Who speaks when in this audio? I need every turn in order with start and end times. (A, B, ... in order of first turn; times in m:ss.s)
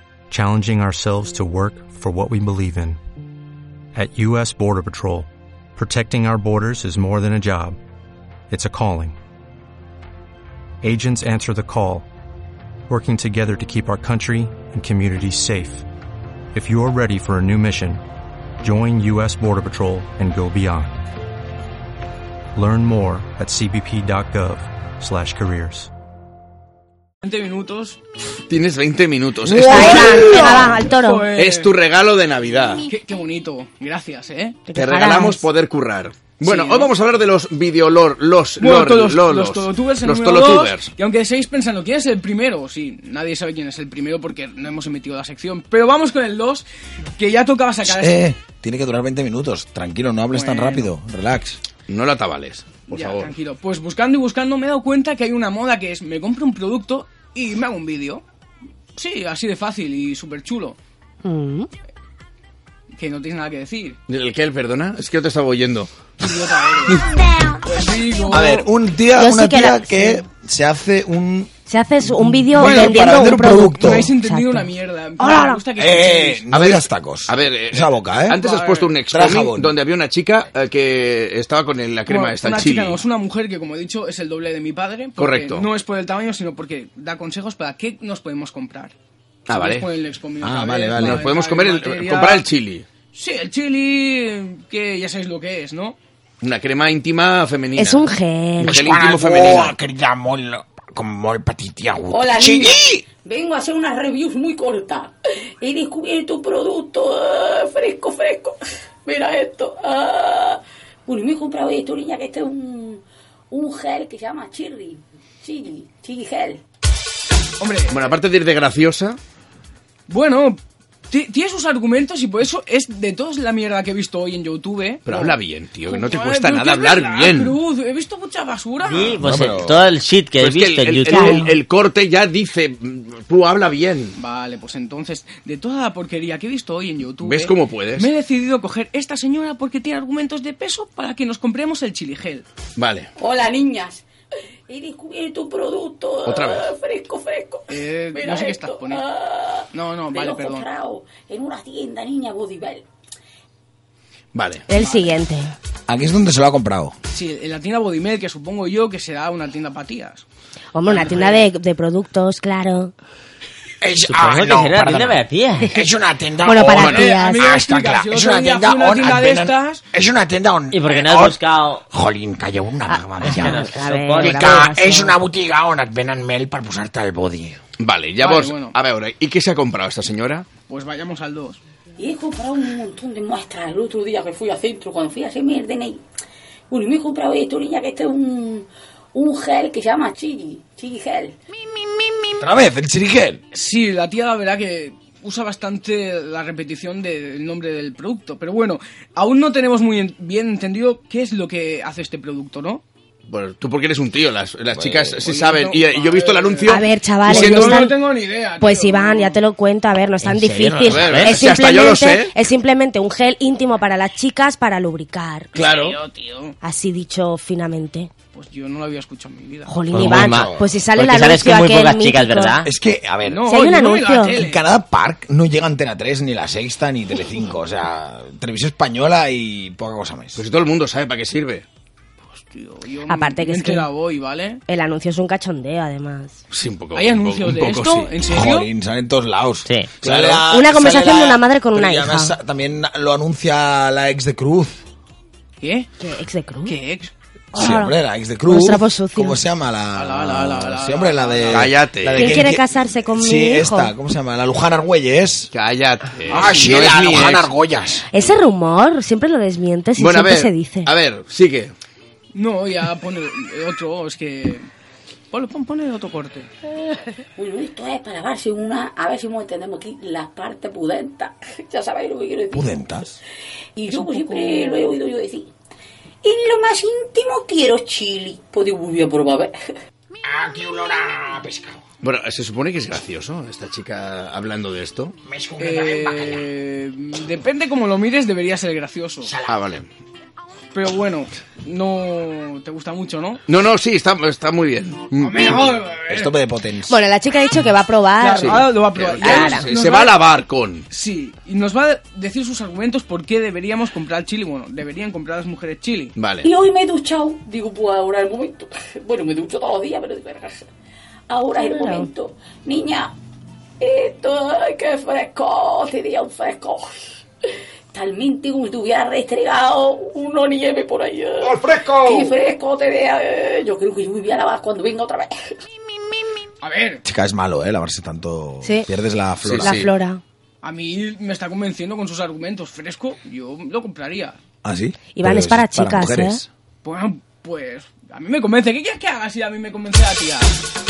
0:00.3-0:03.0 A
0:03.9-0:07.8 A
0:08.5-0:09.2 A
0:10.8-0:12.1 A
0:12.9-0:15.8 A
0:16.5-0:18.0 A
0:18.6-0:21.0 A
0:22.5-0:25.9 A
0:27.2-0:28.0 B
0:28.5-0:30.7 C
0:29.6-0:31.3 D
0:29.6-0:30.1 E
0:29.7-0:31.7 B
0:31.4-0:32.9 C
0:32.9-0:34.6 B
0:34.6-0:35.4 D
0:34.8-0:40.9 C
0:36.4-0:36.9 B
0:38.6-0:46.6 B
0:47.2-0:48.2 B
0:47.8-0:51.6 E
0:50.3-0:50.9 B
0:51.9-0:53.3 C
0:52.9-0:58.2 B
0:59.0-1:00.8 B
1:01.2-1:01.7 D
1:02.9-1:04.0 B
1:04.1-1:05.9 C
1:06.2-1:07.0 B
1:07.6-1:08.7 B
1:08.3-1:11.5 E
1:09.2-1:10.2 D
1:11.7-1:15.6 D
1:12.0-1:14.1 E
1:12.5-1:16.4 B
1:15.8-1:18.4 E
1:16.5-1:23.0 C
1:18.3-1:19.0 B
1:19.1-1:19.8 E
1:22.0-1:28.9 B
1:25.2-1:25.7 C
1:29.5-1:29.9 C
1:29.5-1:32.5 B
1:30.4-1:31.3 E
1:31.0-1:32.8 C
1:33.1-1:36.0 B
1:36.4-1:38.0 C
1:37.8-1:38.8 D
1:38.6-1:39.8 C
1:38.6-1:43.0 E
1:42.1-1:56.6 F
1:57.6-1:58.1 B
1:57.9-1:59.2 C
2:00.1-2:00.6 B
2:01.1-2:09.2 B
2:05.0-2:07.6 C
2:08.8-2:11.3 G
2:09.2-2:09.8 E
2:10.4-2:14.2 C
2:11.1-2:11.5 D
2:14.2-2:22.4 B
2:17.2-2:18.1 C
2:22.8-2:23.1 C
2:23.2-2:24.0 F
2:24.7-2:32.8 F
2:26.2-2:26.7 C
2:27.7-2:29.0 B
2:29.7-2:30.7 B
2:34.3-2:34.6 C
2:34.7-2:35.5 D
2:34.7-2:35.2 B
2:35.9-2:36.9 E
2:37.1-2:40.2 B
2:40.7-2:42.9 D
2:40.8-2:41.4 B
2:43.8-2:57.6 E
2:44.1-2:45.7 G
2:46.4-2:47.5 D
2:46.8-2:47.1 C
2:46.9-2:49.8 B
2:50.7-2:51.8 G
2:52.9-2:55.2 D
2:53.3-2:54.7 G
2:57.8-3:00.5 C
2:58.2-2:58.7 B
3:00.7-3:01.6 B
3:02.0-3:06.0 F
3:06.7-3:11.3 F
3:12.4-3:13.4 E
3:13.5-3:22.8 B
3:23.3-3:27.7 C
3:24.7-3:25.2 E
3:25.2-3:29.4 B
3:26.7-3:27.9 D
3:28.6-3:35.5 D
3:30.2-3:31.4 G
3:30.8-3:32.3 C
3:35.5-3:36.6 B
3:35.6-3:36.0 C
3:36.6-3:38.1 D
3:38.3-3:39.8 B
3:39.7-3:42.6 D
3:39.9-3:42.6 G
3:39.9-3:40.8 E
3:42.6-3:43.4 E
3:43.2-3:44.6 B
3:43.4-3:44.4 D
3:44.3-3:50.4 E
3:50.4-3:51.6 C
3:52.2-3:54.6 B
3:53.1-3:53.9 D
3:54.7-3:56.3 D
3:56.5-3:58.1 C
3:56.9-3:58.7 B
3:58.3-4:04.8 E
3:59.6-3:59.9 G
4:00.0-4:00.5 C
4:00.5-4:02.4 D
4:05.6-4:05.9 B
4:06.0-4:06.8 D
4:06.6-4:07.1 B
4:07.5-4:09.4 D
4:07.5-4:15.5 E
4:09.9-4:11.6 B
4:11.5-4:12.4 C
4:12.1-4:13.9 D
4:15.5-4:17.5 C
4:16.3-4:16.8 B
4:16.3-4:18.1 E
4:18.1-4:20.9 D
4:20.0-4:21.7 C
4:22.3-4:24.7 B
4:25.3-4:26.5 B
4:27.4-4:33.0 F
4:32.5-4:33.1 E
4:33.8-4:35.5 F
4:33.9-4:34.9 B
4:36.2-4:39.5 F
4:40.2-4:41.8 E
4:42.0-4:45.2 C
4:45.2-4:46.5 E
4:45.6-4:49.3 B
4:49.2-4:49.6 E
4:49.5-4:49.8 C
4:50.7-4:53.4 B
4:53.5-4:55.6 C
4:55.2-4:56.3 B
4:55.7-4:57.0 E
4:56.9-4:58.7 D
4:58.2-5:00.2 B
4:58.4-5:00.8 C
4:59.2-4:59.7 D
5:00.9-5:06.1 B
5:06.2-5:06.5 C
5:06.4-5:10.6 F
5:11.3-5:13.1 F
5:11.6-5:12.1 D
5:13.8-5:17.0 F
5:17.9-5:25.4 F
5:26.6-5:27.0 B
5:27.0-5:29.8 E
5:28.6-5:28.9 D
5:29.4-5:29.9 C
5:29.6-5:30.2 D
5:30.6-5:34.4 B
5:34.6-5:36.4 E
5:35.2-5:36.4 D
5:36.8-5:40.5 B